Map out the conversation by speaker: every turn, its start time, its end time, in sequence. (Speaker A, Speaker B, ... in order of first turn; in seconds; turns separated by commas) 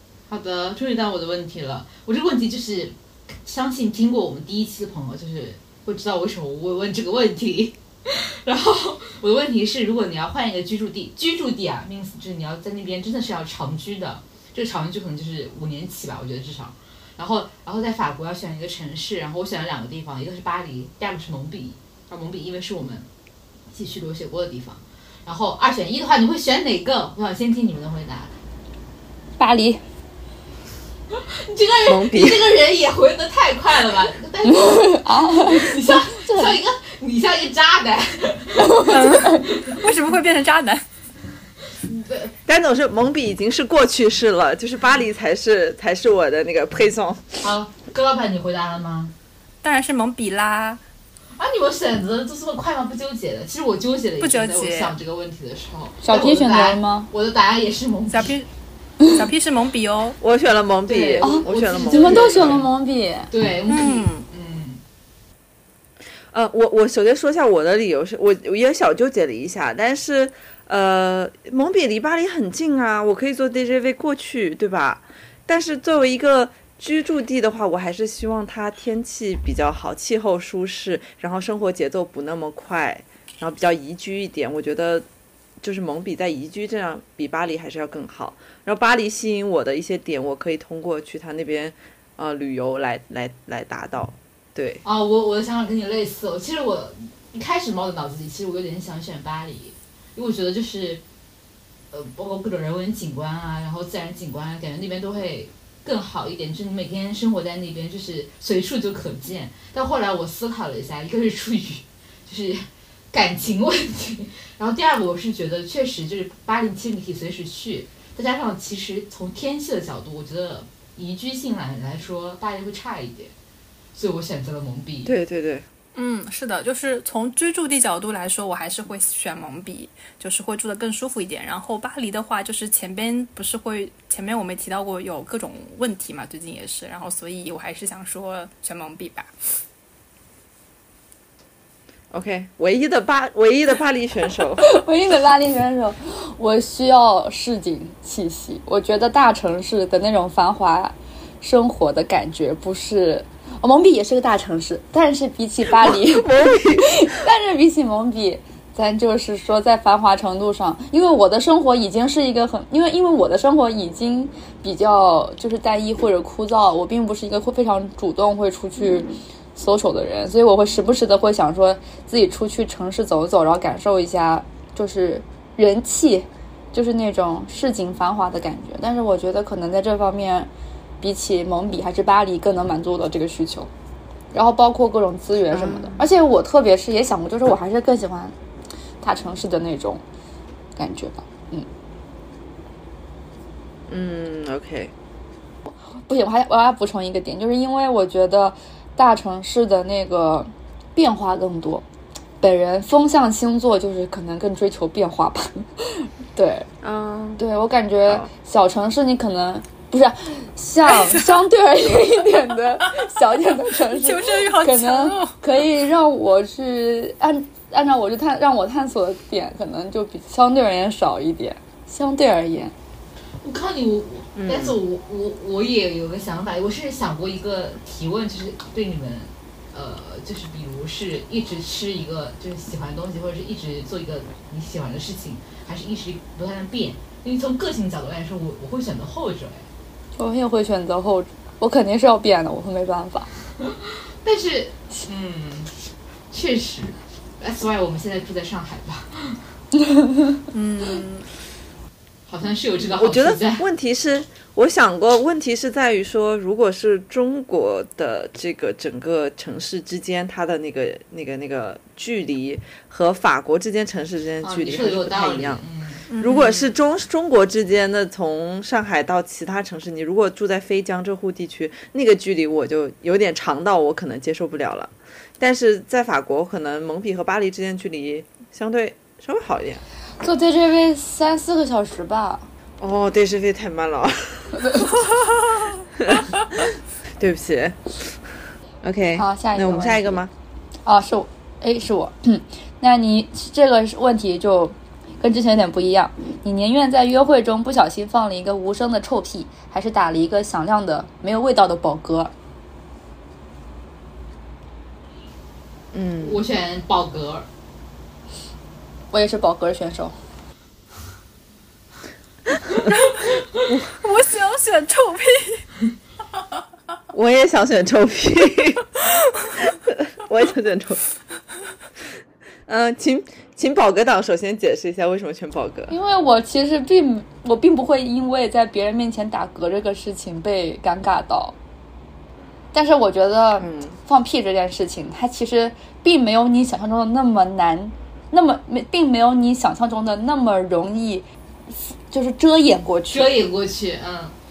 Speaker A: 0.3-23.1, Speaker A: 23.7-28.3, Speaker B: 29.4-29.8, Speaker A: 31.1-39.9, Speaker C: 31.9-32.6, Speaker B: 34.5-36.6, Speaker B: 38.6-39.4, Speaker D: 38.9-40.8, Speaker A: 41.8-42.3, Speaker C: 42.5-47.5, Speaker A: 47.4-49.1, Speaker D: 49.6-50.8, Speaker A: 51.4-58.4, Speaker D: 54.2-55.0, Speaker B: 56.0-57.1, Speaker D: 58.1-58.5, Speaker D: 59.1-60.2, Speaker C: 60.2-62.7, Speaker A: 60.9-62.7, Speaker B: 61.2-63.3, Speaker A: 63.3-64.8, Speaker D: 63.7-64.3, Speaker C: 66.3-85.1, Speaker C: 85.6-94.8, Speaker A: 94.8-101.0, Speaker A: 101.9-123.3, Speaker A: 124.0-125.1, Speaker C: 125.0-125.7, Speaker D: 126.0-139.3, Speaker C: 142.1-144.7, Speaker B: 144.6-180.5, Speaker C: 155.7-157.2, Speaker B: 181.0-183.7, Speaker B: 184.3-188.3, Speaker C: 185.5-186.1, Speaker B: 189.0-190.0, Speaker B: 190.8-191.7, Speaker C: 193.9-194.9, Speaker B: 195.7-201.9, Speaker B: 202.4-206.7, Speaker C: 206.8-207.4, Speaker B: 207.4-222.7, Speaker D: 210.9-211.4, Speaker D: 213.9-215.4, Speaker A: 223.4-239.7, Speaker C: 224.4-224.8, Speaker B: 240.2-243.3, Speaker A: 243.6-245.7, Speaker A: 246.3-249.4, Speaker B: 249.8-250.2, Speaker D: 250.5-251.3, Speaker A: 252.3-253.6, Speaker C: 252.8-265.6, Speaker A: 264.4-266.1, Speaker D: 266.1-266.7, Speaker C: 266.2-279.8, Speaker B: 280.2-282.5, Speaker C: 282.8-284.9, Speaker C: 286.0-288.1, Speaker C: 288.8-290.3, Speaker B: 289.2-290.2, Speaker B: 290.9-302.3, Speaker C: 305.9-306.4, Speaker A: 306.2-307.5, Speaker B: 309.1-310.1, Speaker C: 313.7-313.9, Speaker D: 313.9-315.7, Speaker C: 317.1-319.0, Speaker C: 319.6-321.0, Speaker C: 322.7-325.9, Speaker B: 325.9-331.6, Speaker B: 332.7-341.3, Speaker C: 333.6-334.0, Speaker B: 341.9-343.3, Speaker A: 343.1-344.3